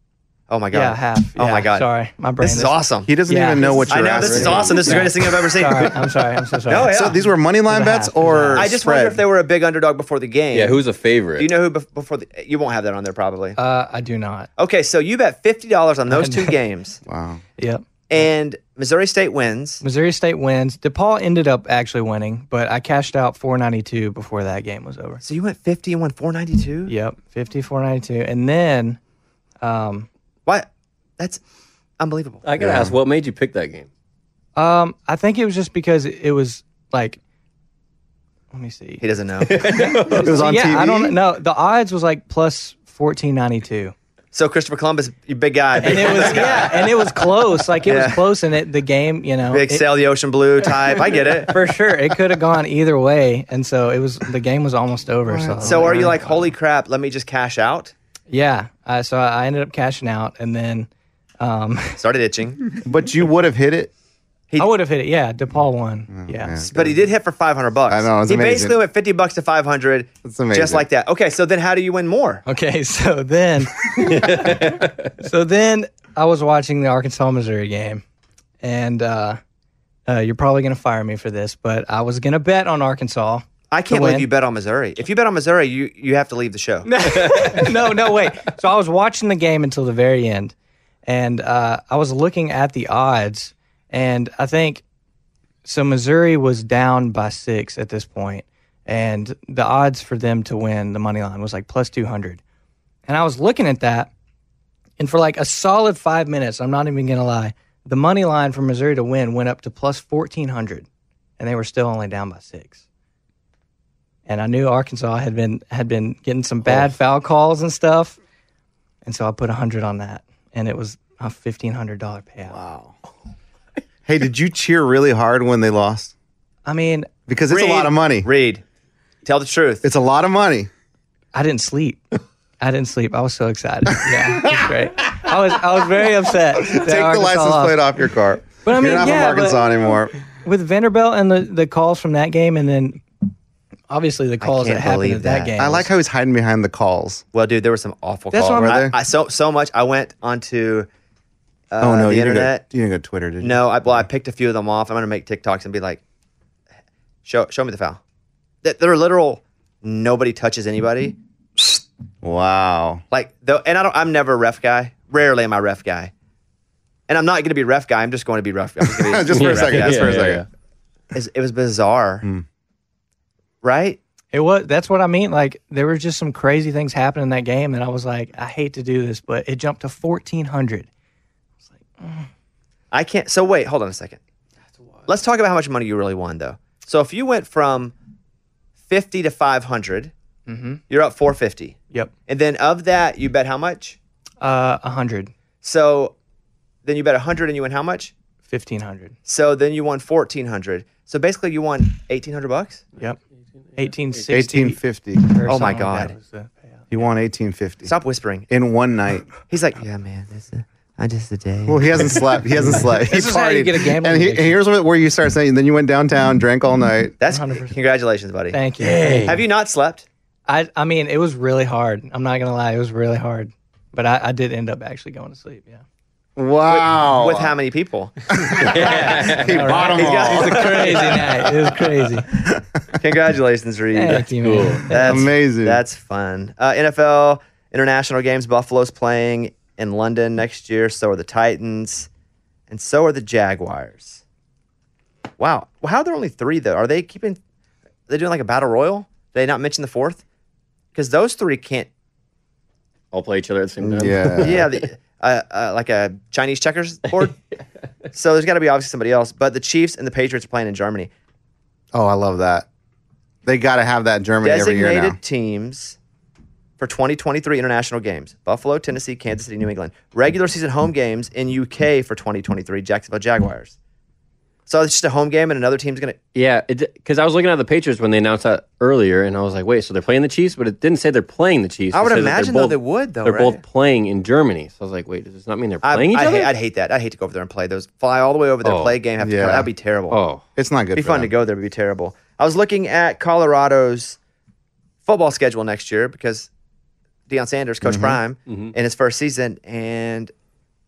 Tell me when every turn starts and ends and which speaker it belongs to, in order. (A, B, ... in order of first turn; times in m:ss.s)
0:00.5-0:01.8 A
0:00.7-0:07.0 B
0:02.4-0:03.1 A
0:03.0-0:04.9 C
0:03.9-0:05.9 A
0:04.2-0:05.0 D
0:06.6-0:07.2 A
0:06.8-0:09.2 C
0:07.7-0:08.7 B
0:08.5-0:10.8 A
0:10.5-0:11.5 D
0:11.4-0:13.6 A
0:13.6-0:14.5 B
0:14.6-0:17.0 A
0:16.1-0:16.5 B
0:17.0-0:17.4 C
0:17.6-0:17.8 B
0:18.1-0:19.8 A
0:19.8-0:25.2 B
0:25.2-0:26.9 A
0:26.9-0:29.0 B
0:29.6-0:30.1 B
0:32.0-0:32.4 A
0:32.4-0:33.9 D
0:32.6-0:32.9 C
0:34.6-0:37.2 B
0:38.5-0:39.0 B
0:39.0-0:39.8 A
0:39.4-0:40.4 D
0:39.5-0:43.9 B
0:40.2-0:41.2 C
0:44.3-0:46.8 A
0:45.8-0:47.1 D
0:45.8-0:49.8 B
0:47.8-0:48.2 A
0:49.5-0:51.6 A
0:51.5-0:56.4 B
0:55.2-0:56.1 C
0:55.6-0:57.9 A
0:58.3-1:00.9 B
1:01.4-1:02.0 B
1:02.0-1:02.8 A
1:02.8-1:03.9 C
1:04.6-1:06.6 B
1:06.1-1:07.0 C
1:06.6-1:12.4 A
1:07.9-1:08.8 C
1:10.2-1:10.8 C
1:12.4-1:18.0 B
1:13.9-1:15.1 D
1:18.6-1:19.4 B
1:20.1-1:24.3 B
1:23.7-1:26.9 A
1:26.8-1:30.5 B
1:27.1-1:27.7 D
1:31.1-1:34.8 B
1:35.6-1:42.4 B
1:43.1-1:44.1 B
1:45.0-1:50.8 B
1:51.4-1:52.8 B
1:54.3-1:58.2 B
1:59.0-2:02.6 B
2:02.5-2:02.9 C
2:04.0-2:06.1 C
2:06.6-2:07.1 B
2:07.3-2:08.3 C
2:07.5-2:08.6 A
2:09.2-2:09.8 A
2:09.8-2:10.7 C
2:11.3-2:12.0 B
2:12.6-2:17.9 B
2:14.4-2:14.7 C
2:16.5-2:20.1 C
2:18.5-2:23.0 B
2:23.9-2:25.9 B
2:24.4-2:25.6 A
2:25.6-2:27.2 C
2:27.3-2:30.9 A
2:28.3-2:28.8 B
2:28.5-2:28.9 C
2:31.7-2:32.6 A
2:31.8-2:33.9 C
2:33.4-2:36.0 A
2:37.2-2:38.0 A
2:38.6-2:41.7 A
2:42.2-2:43.0 C
2:43.1-2:46.1 A
2:47.1-2:50.3 A
2:48.8-2:50.4 C
2:49.3-2:50.4 D
2:51.1-2:52.2 A
2:53.6-2:54.0 A
2:54.3-3:00.9 B
3:02.0-3:02.2 B
3:02.9-3:04.2 A
3:05.0-3:07.9 A
3:08.9-3:10.1 A
3:10.5-3:10.8 B
3:10.9-3:14.0 A
3:14.4-3:15.3 B
3:15.6-3:16.1 A
3:16.8-3:18.1 A
3:18.5-3:19.1 B
3:19.2-3:22.8 A
3:23.8-3:26.8 B
3:24.3-3:25.4 C
3:25.4-3:26.2 A
3:26.9-3:27.9 C
3:27.8-3:28.5 A
3:28.5-3:29.3 C
3:29.5-3:32.7 A
3:31.7-3:37.1 C
3:33.0-3:34.6 B
3:37.2-3:38.6 A
3:37.3-3:37.8 B
3:38.5-3:39.4 B
3:38.8-3:39.4 D
3:39.2-3:40.0 A
3:40.5-3:45.8 B
3:46.4-3:47.5 C
3:46.7-3:49.2 A
3:48.4-3:50.8 C
3:48.6-3:49.9 D
3:48.8-3:52.3 B
3:49.8-3:51.7 A
3:52.4-3:54.2 A
3:53.9-3:55.3 B
3:54.3-3:54.8 D
3:54.8-4:02.1 A
3:55.0-3:55.8 C
4:02.7-4:04.2 A
4:05.4-4:07.4 A
4:08.1-4:10.2 A
4:10.9-4:11.9 A
4:13.1-4:14.7 D
4:13.8-4:14.7 C
4:14.4-4:17.4 A
4:18.1-4:21.1 A
4:21.9-4:22.7 C
4:23.4-4:25.2 C
4:24.4-4:26.0 A
4:26.8-4:33.8 A
4:34.7-4:36.2 A
4:36.3-4:46.5 D
4:41.9-4:43.6 A
4:45.8-4:50.2 A
4:48.6-4:48.9 D
4:49.2-4:49.7 C
4:50.1-4:50.4 D
4:50.6-4:51.3 C
4:51.0-4:54.2 A
4:55.0-4:56.5 A
4:57.3-5:00.3 A
4:57.8-4:58.2 C
4:58.5-4:58.7 D